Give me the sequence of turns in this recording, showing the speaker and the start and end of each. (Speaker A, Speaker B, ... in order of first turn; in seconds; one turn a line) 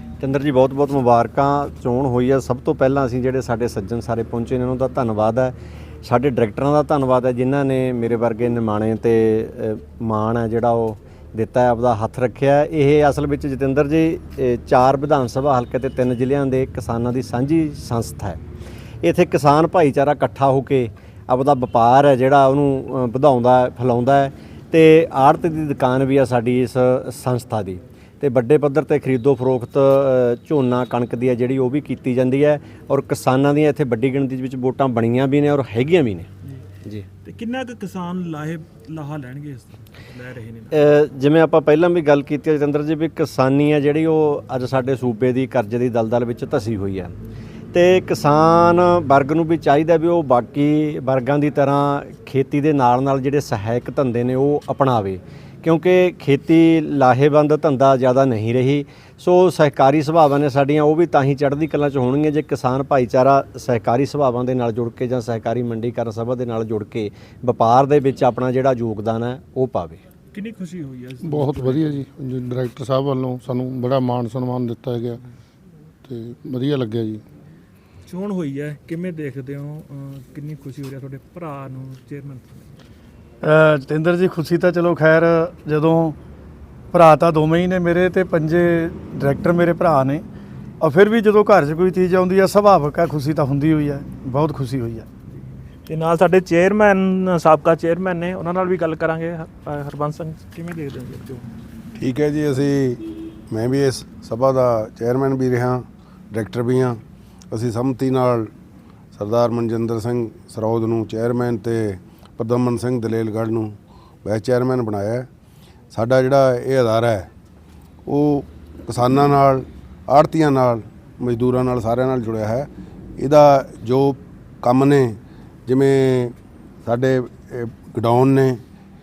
Speaker A: 0.2-5.5
Speaker A: 6.0-18.4
Speaker A: 19.0-36.3
Speaker B: 37.2-40.9
Speaker A: 40.7-47.1
Speaker A: 47.7-70.0
Speaker B: 70.3-72.0
Speaker C: 71.2-75.2
Speaker C: 76.0-77.2
Speaker B: 78.1-82.7
Speaker D: 83.4-86.2
Speaker D: 86.9-90.3
Speaker D: 90.8-95.1
Speaker B: 95.9-101.5
Speaker E: 102.0-108.5
Speaker E: 109.2-115.3
Speaker E: 115.9-117.3
Speaker E: 118.1-128.6